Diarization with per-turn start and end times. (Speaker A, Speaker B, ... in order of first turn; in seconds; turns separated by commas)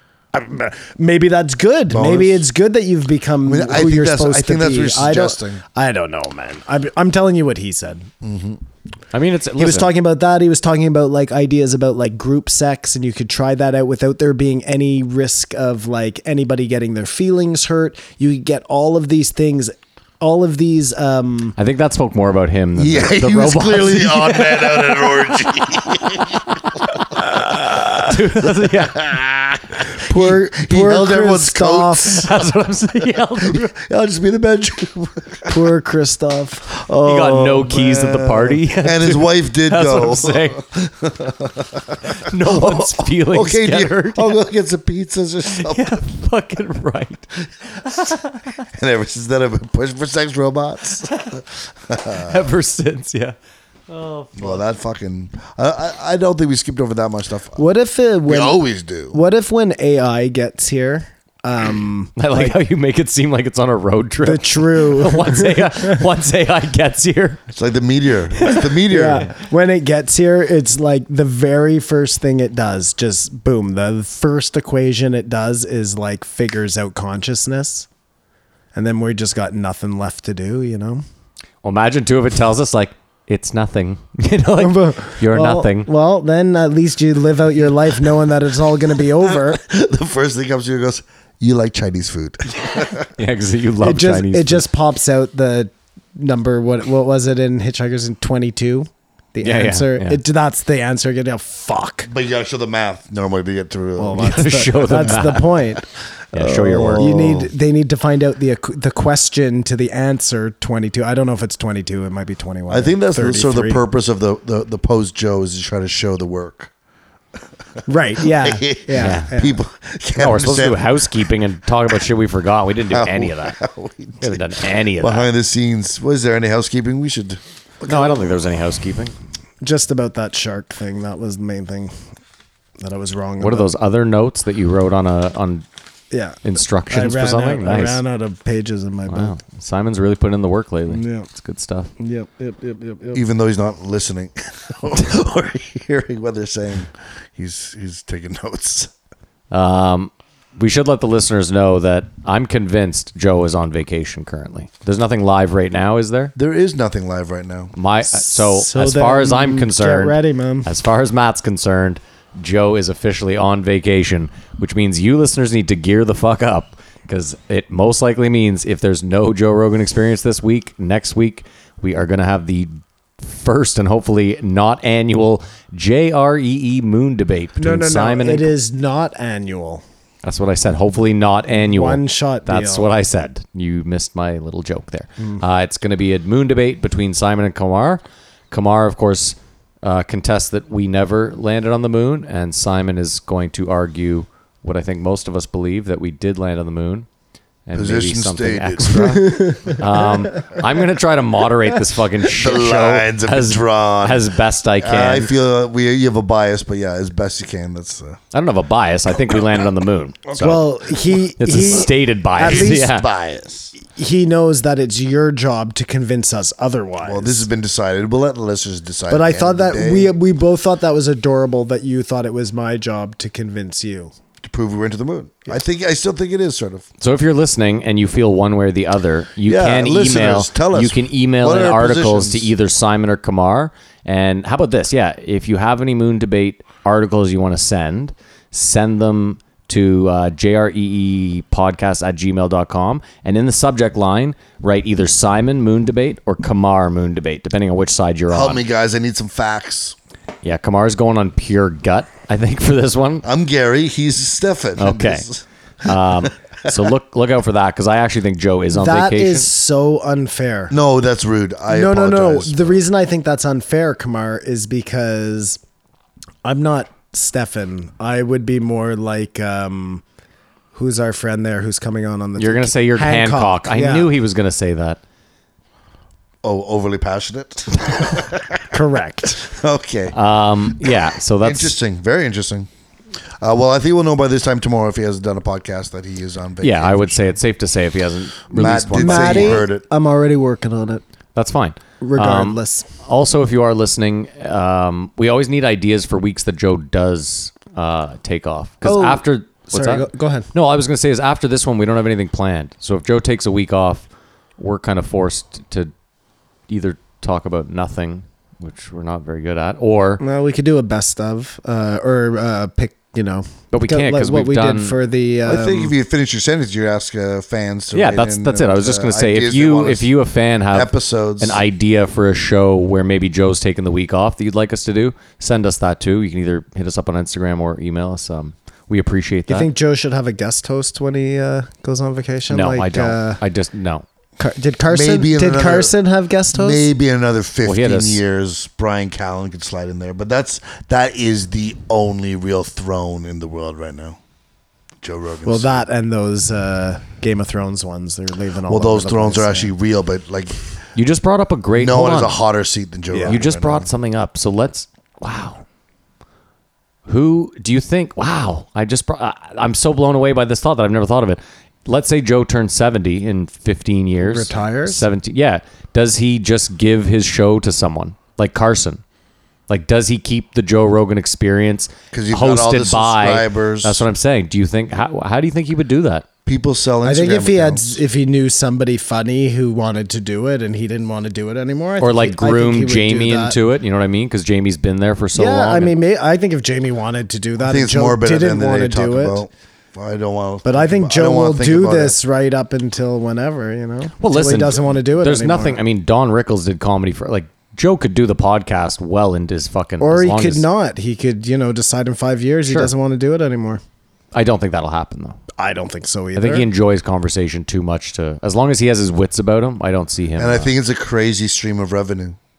Speaker A: 0.3-8.1, Speaker B: 1.9-2.5, Speaker B: 3.4-5.6, Speaker B: 8.2-8.6, Speaker C: 9.1-9.9, Speaker A: 9.6-21.6, Speaker C: 21.6-25.1, Speaker B: 22.8-27.0, Speaker C: 27.5-29.2, Speaker B: 28.4-32.3, Speaker A: 30.0-32.3, Speaker C: 32.0-33.7, Speaker B: 33.4-35.7, Speaker A: 35.5-36.7, Speaker B: 36.7-45.9, Speaker C: 37.0-40.6, Speaker C: 42.2-44.4, Speaker C: 45.5-47.3, Speaker B: 47.8-52.5, Speaker C: 47.9-48.4, Speaker C: 52.1-53.3, Speaker C: 53.9-54.4, Speaker B: 54.3-57.6, Speaker A: 57.6-58.6, Speaker B: 58.3-59.1, Speaker A: 59.1-62.6, Speaker C: 62.2-67.4, Speaker A: 64.2-66.0, Speaker B: 67.5-69.3, Speaker A: 68.4-77.9, Speaker A: 78.7-81.0, Speaker C: 81.6-85.9, Speaker A: 84.6-89.6, Speaker B: 89.2-93.1, Speaker C: 93.2-94.7, Speaker A: 93.8-102.1, Speaker C: 99.4-100.2, Speaker B: 102.1-105.3, Speaker A: 104.0-105.8, Speaker C: 104.2-105.6, Speaker C: 106.3-107.2, Speaker B: 106.3-107.5, Speaker A: 106.9-113.8, Speaker B: 112.7-116.7, Speaker A: 117.9-119.6, Speaker B: 118.2-121.3, Speaker C: 119.0-119.3, Speaker C: 120.2-123.6, Speaker B: 122.9-128.2, Speaker C: 124.2-125.3, Speaker C: 127.8-129.1, Speaker A: 129.6-131.9, Speaker A: 132.8-133.7, Speaker C: 133.4-135.6, Speaker A: 136.1-139.3, Speaker C: 136.4-138.0, Speaker C: 139.1-141.9, Speaker A: 140.9-141.3, Speaker A: 142.0-143.2, Speaker B: 143.1-148.9, Speaker C: 149.5-156.3, Speaker B: 156.3-157.7, Speaker C: 157.8-178.5, Speaker A: 158.1-160.7, Speaker A: 177.6-179.8, Speaker C: 180.2-197.1, Speaker A: 181.5-182.9, Speaker C: 197.7-205.3, Speaker B: 197.7-199.3, Speaker A: 199.2-199.8, Speaker B: 202.3-208.2, Speaker C: 208.3-210.7, Speaker A: 210.3-212.9, Speaker C: 211.4-213.1, Speaker B: 212.4-213.7, Speaker A: 213.8-217.4, Speaker B: 217.0-220.1, Speaker A: 219.1-224.1, Speaker B: 224.4-226.8, Speaker C: 227.0-248.6, Speaker B: 229.4-232.5, Speaker B: 248.3-249.9, Speaker C: 250.4-253.2, Speaker B: 253.2-256.9, Speaker C: 254.8-255.2, Speaker C: 255.8-259.5, Speaker A: 258.7-260.7, Speaker B: 260.7-262.8, Speaker A: 261.7-265.6, Speaker A: 266.4-270.0, Speaker A: 270.7-274.1, Speaker C: 272.4-275.0, Speaker B: 276.4-278.7, Speaker A: 278.7-279.4, Speaker B: 279.4-280.1, Speaker C: 280.1-281.7, Speaker B: 280.7-282.7, Speaker B: 283.4-287.4, Speaker C: 286.6-289.6, Speaker B: 288.5-289.8, Speaker A: 288.6-291.0, Speaker C: 291.3-304.1, Speaker A: 292.0-292.9, Speaker A: 298.8-300.5, Speaker C: 304.6-305.9, Speaker C: 306.7-310.2, Speaker A: 310.2-315.9, Speaker C: 313.7-314.9, Speaker B: 315.4-320.1, Speaker C: 317.9-329.7, Speaker B: 320.7-321.6, Speaker A: 329.5-333.4, Speaker C: 332.5-334.1, Speaker A: 334.4-336.9, Speaker B: 334.9-335.9, Speaker B: 336.5-344.2, Speaker C: 337.6-338.2, Speaker B: 345.0-345.8, Speaker A: 345.4-349.7, Speaker B: 348.7-350.6, Speaker C: 350.9-352.3, Speaker B: 351.7-353.9, Speaker A: 353.1-353.4, Speaker C: 353.2-355.6, Speaker C: 357.1-369.0, Speaker A: 364.2-365.0, Speaker C: 369.7-376.2, Speaker B: 372.1-374.0, Speaker B: 376.4-378.0, Speaker A: 377.0-383.6, Speaker C: 382.0-385.9, Speaker A: 385.3-389.4, Speaker B: 387.6-392.2, Speaker A: 390.6-395.8, Speaker C: 394.2-400.6, Speaker A: 400.0-403.8, Speaker C: 404.3-405.4, Speaker A: 405.6-406.7, Speaker C: 406.4-410.7, Speaker B: 410.4-412.4